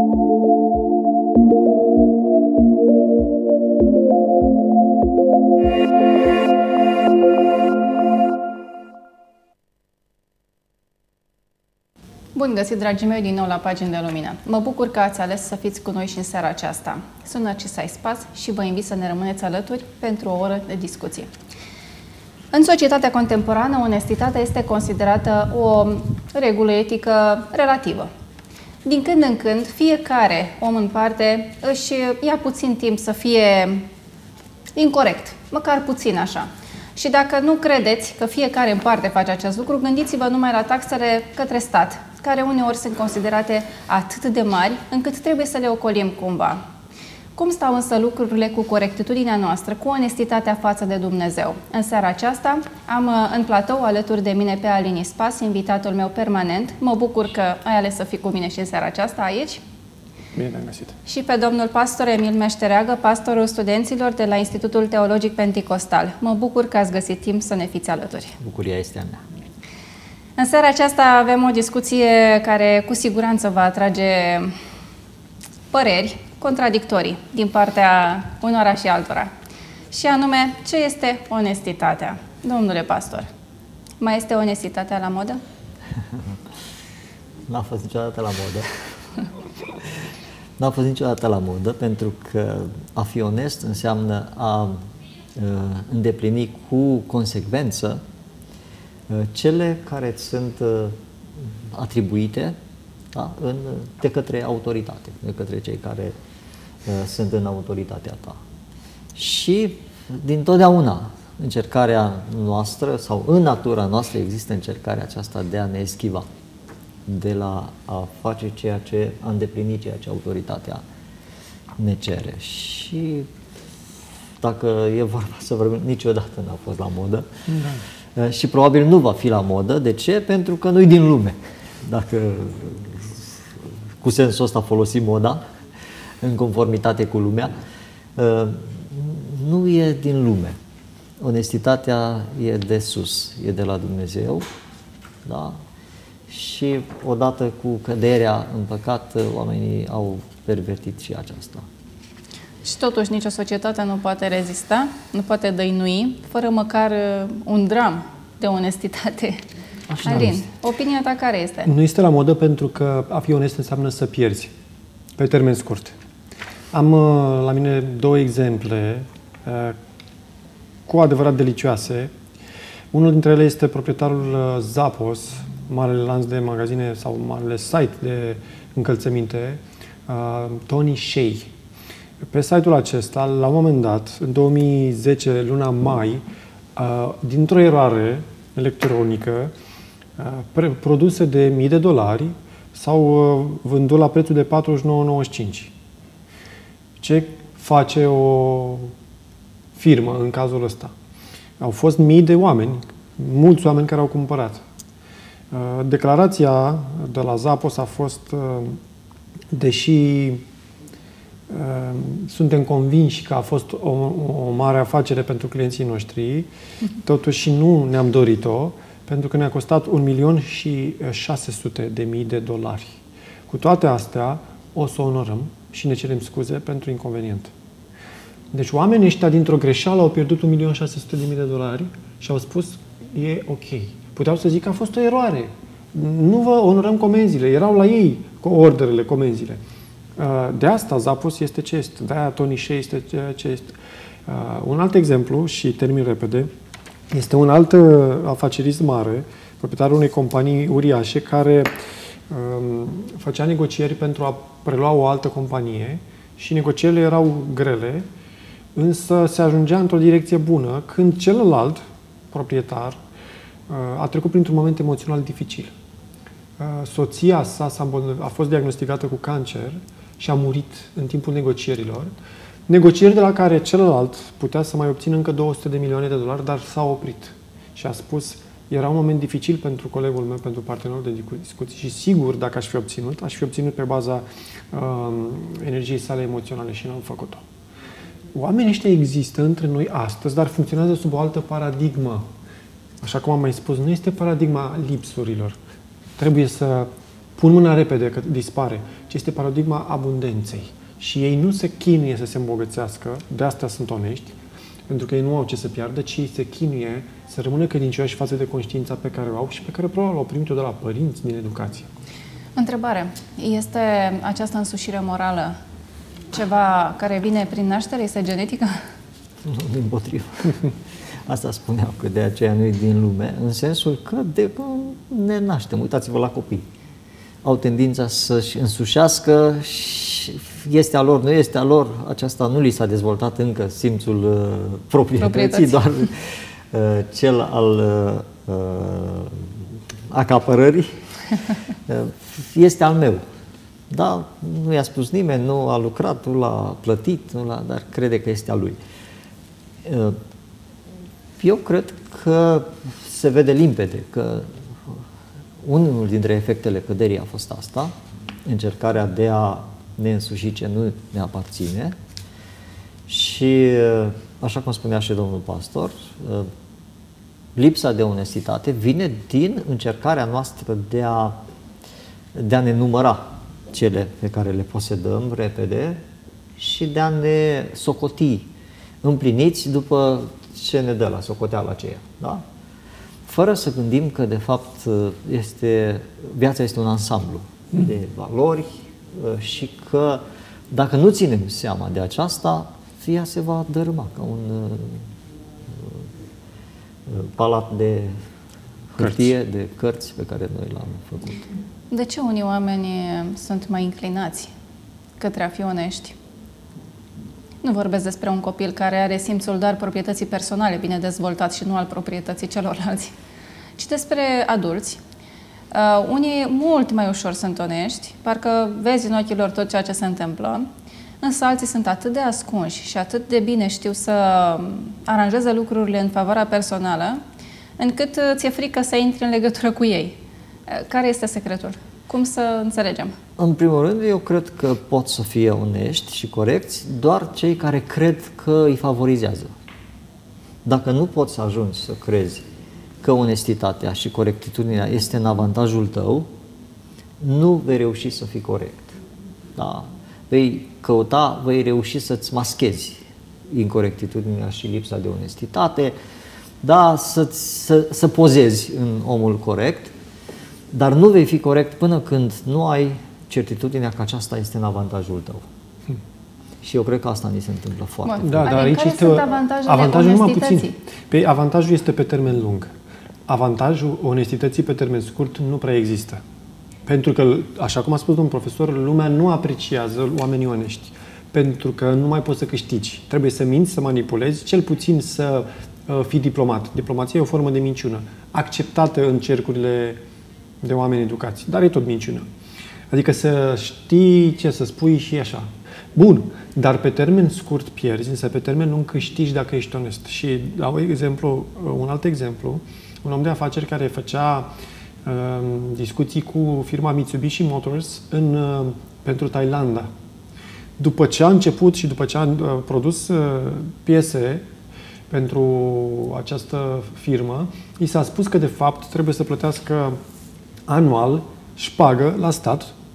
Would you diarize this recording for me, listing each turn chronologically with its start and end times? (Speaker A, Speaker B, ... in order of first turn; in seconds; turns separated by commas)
Speaker A: 12.3-21.3, Speaker A: 22.5-28.1, Speaker A: 28.8-33.9, Speaker A: 34.7-46.6, Speaker A: 47.4-59.6, Speaker B: 60.4-60.9, Speaker A: 61.1-68.4, Speaker C: 68.4-69.2, Speaker A: 70.4-74.5, Speaker A: 75.7-79.3, Speaker A: 79.9-83.3, Speaker A: 84.0-85.4, Speaker C: 87.5-88.7, Speaker C: 90.6-94.8, Speaker C: 95.3-98.0, Speaker C: 99.1-101.0, Speaker C: 101.7-102.5, Speaker C: 103.1-106.1, Speaker C: 106.8-108.4, Speaker C: 109.1-116.3, Speaker C: 117.0-120.8, Speaker C: 121.8-123.3, Speaker C: 124.4-127.3, Speaker B: 127.5-127.8, Speaker C: 128.2-133.3, Speaker C: 134.0-135.4, Speaker C: 136.2-137.5, Speaker C: 138.2-140.6, Speaker C: 141.2-144.5, Speaker C: 145.2-145.6, Speaker C: 146.3-151.7, Speaker A: 152.6-159.4, Speaker C: 159.9-160.4, Speaker A: 160.0-161.7, Speaker B: 161.7-164.5, Speaker B: 165.2-165.9, Speaker B: 166.7-169.8, Speaker B: 170.9-172.1, Speaker B: 172.9-181.5, Speaker B: 182.2-186.2, Speaker B: 186.8-189.5, Speaker B: 190.2-195.7, Speaker B: 197.0-198.9, Speaker B: 199.8-200.9, Speaker B: 201.6-204.6, Speaker B: 205.5-208.8, Speaker B: 209.5-210.4, Speaker B: 211.5-216.5, Speaker B: 217.0-223.0, Speaker B: 223.5-227.5, Speaker B: 228.5-239.6, Speaker B: 240.2-243.7, Speaker B: 244.2-246.5, Speaker B: 247.1-251.7, Speaker B: 252.3-258.0, Speaker B: 258.7-263.0, Speaker B: 263.7-265.7, Speaker B: 266.6-272.1, Speaker B: 272.7-287.4, Speaker B: 288.3-292.3, Speaker B: 293.0-295.6, Speaker B: 296.2-304.4, Speaker B: 304.9-311.9, Speaker A: 312.6-315.6, Speaker A: 316.3-318.8, Speaker C: 319.4-320.7, Speaker C: 321.2-326.6, Speaker C: 327.4-339.6, Speaker A: 335.2-336.1, Speaker C: 340.1-340.9, Speaker C: 341.9-343.2, Speaker C: 343.9-348.8, Speaker C: 349.8-350.2, Speaker C: 351.4-355.0, Speaker C: 355.6-357.9, Speaker C: 358.4-361.9, Speaker C: 363.1-366.5, Speaker C: 367.6-371.4, Speaker C: 372.3-376.0, Speaker C: 376.6-378.5, Speaker C: 379.0-382.4, Speaker C: 383.2-395.1, Speaker C: 397.1-398.1, Speaker C: 398.9-401.5, Speaker B: 399.0-399.3, Speaker A: 401.9-404.5, Speaker A: 405.2-406.1, Speaker A: 407.6-413.1, Speaker A: 413.8-415.0, Speaker A: 415.7-420.7, Speaker A: 421.2-427.2, Speaker A: 427.8-433.1, Speaker C: 433.4-439.5, Speaker C: 440.6-442.4, Speaker C: 443.0-446.3, Speaker C: 447.2-449.0, Speaker C: 449.6-455.9, Speaker C: 456.6-459.9, Speaker C: 460.7-465.5, Speaker C: 466.6-468.7, Speaker A: 468.1-470.7, Speaker B: 468.2-472.7, Speaker B: 473.3-476.2, Speaker B: 476.9-490.0, Speaker B: 490.6-492.2, Speaker B: 492.9-504.5, Speaker B: 505.0-509.9, Speaker B: 510.8-514.5, Speaker B: 515.1-520.0, Speaker B: 520.7-522.7